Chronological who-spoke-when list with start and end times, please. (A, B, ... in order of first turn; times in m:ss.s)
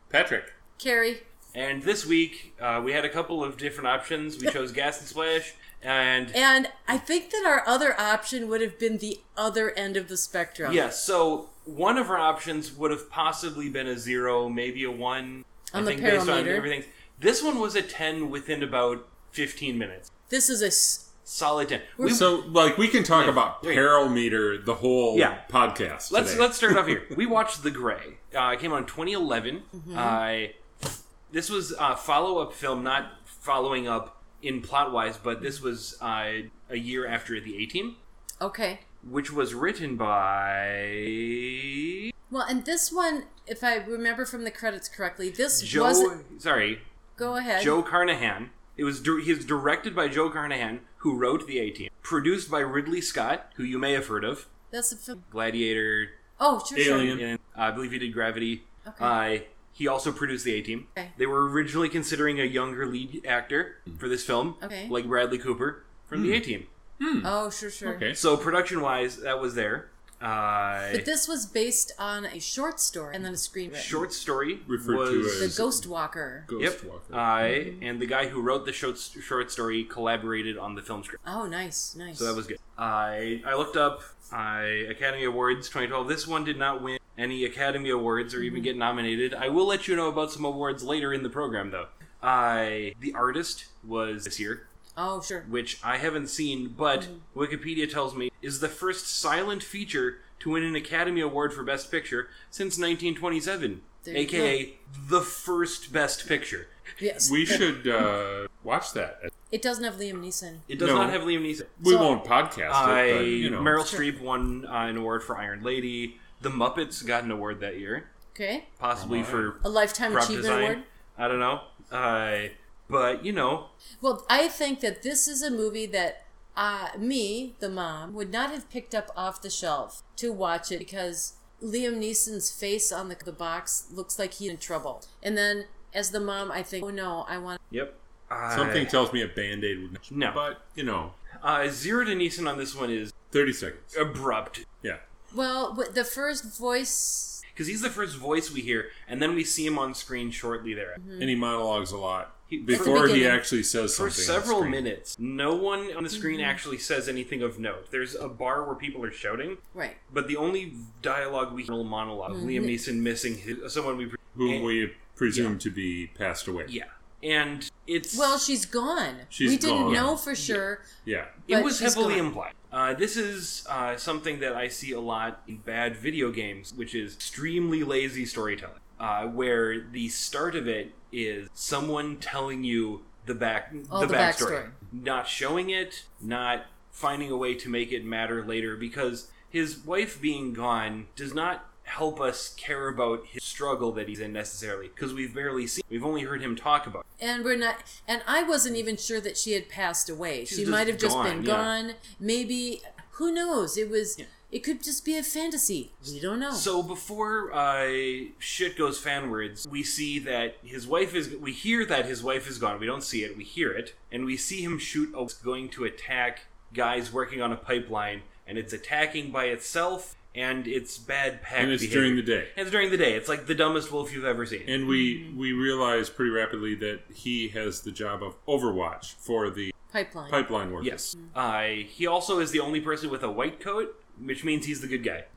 0:00.1-0:00.5 A
0:00.8-0:01.2 B
0:01.5-0:06.4 C
0:06.3-0:10.9 B
0:10.6-0:20.1 C
0:15.7-0:16.7 B
0:20.3-0:21.1 B
0:21.2-0:22.3 C
0:22.0-0:22.2 B
0:22.0-0:27.1 A
0:23.1-0:23.8 C
0:25.1-0:25.4 C
0:26.1-0:38.0 C
0:29.8-0:30.2 B
0:38.4-0:38.8 B
0:39.0-0:41.8 C
0:42.3-0:46.1 B
0:45.5-0:46.8 C
0:47.2-0:47.8 B
0:47.5-0:54.5 C
0:54.7-0:55.2 B
0:55.3-0:56.2 C
0:56.4-0:57.2 B
0:56.7-0:57.2 A
0:57.0-1:06.7 C
0:58.8-0:59.2 B
1:04.6-1:04.9 B
1:06.1-1:06.4 A
1:07.0-1:07.3 A
1:07.2-1:08.1 B
1:07.8-1:08.2 A
1:08.1-1:11.1 C
1:10.9-1:14.0 B
1:13.7-1:15.6 C
1:14.6-1:15.8 A
1:15.4-1:16.5 B
1:16.5-1:17.3 A
1:16.6-1:21.2 C
1:17.4-1:17.8 B
1:21.2-1:22.4 B
1:22.1-1:34.6 C
1:28.4-1:28.7 B
1:35.0-1:35.5 B
1:35.4-1:46.7 C
1:44.0-1:44.6 B
1:47.0-1:47.7 B
1:47.2-1:49.3 A
1:49.5-1:50.6 B
1:50.7-1:51.7 C
1:50.8-1:51.2 A
1:51.8-1:53.8 A
1:51.8-1:52.1 B
1:52.7-1:58.1 C
1:53.2-1:54.1 B
1:58.3-1:58.7 B
1:58.8-2:03.7 C
1:59.0-1:59.5 A
1:59.6-2:00.8 B
2:04.0-2:17.6 B
2:17.7-2:18.9 C
2:18.5-2:21.1 A
2:20.1-2:20.4 C
2:21.4-2:23.1 C
2:23.3-2:23.9 A
2:23.9-2:24.6 C
2:25.3-2:27.4 B
2:27.5-2:31.0 C
2:31.0-2:31.3 B
2:31.2-2:34.8 A
2:32.5-2:44.7 C
2:32.7-2:33.4 B
2:36.1-2:36.6 B
2:42.3-2:42.8 B
2:44.3-2:46.7 A
2:45.3-2:45.6 C
2:46.6-2:48.4 C
2:48.1-2:50.8 B
2:49.3-2:50.2 A
2:49.8-2:50.6 C
2:51.0-2:51.4 A
2:51.4-3:17.0 C
2:51.5-2:52.3 B
3:03.9-3:04.7 B
3:17.2-3:26.7 B
3:20.5-3:21.7 C
3:26.0-3:44.8 C
3:41.6-3:42.5 A
3:44.7-3:49.7 A
3:45.0-3:45.3 B
3:49.9-3:50.4 B
3:50.3-3:51.0 A
3:50.8-3:55.2 C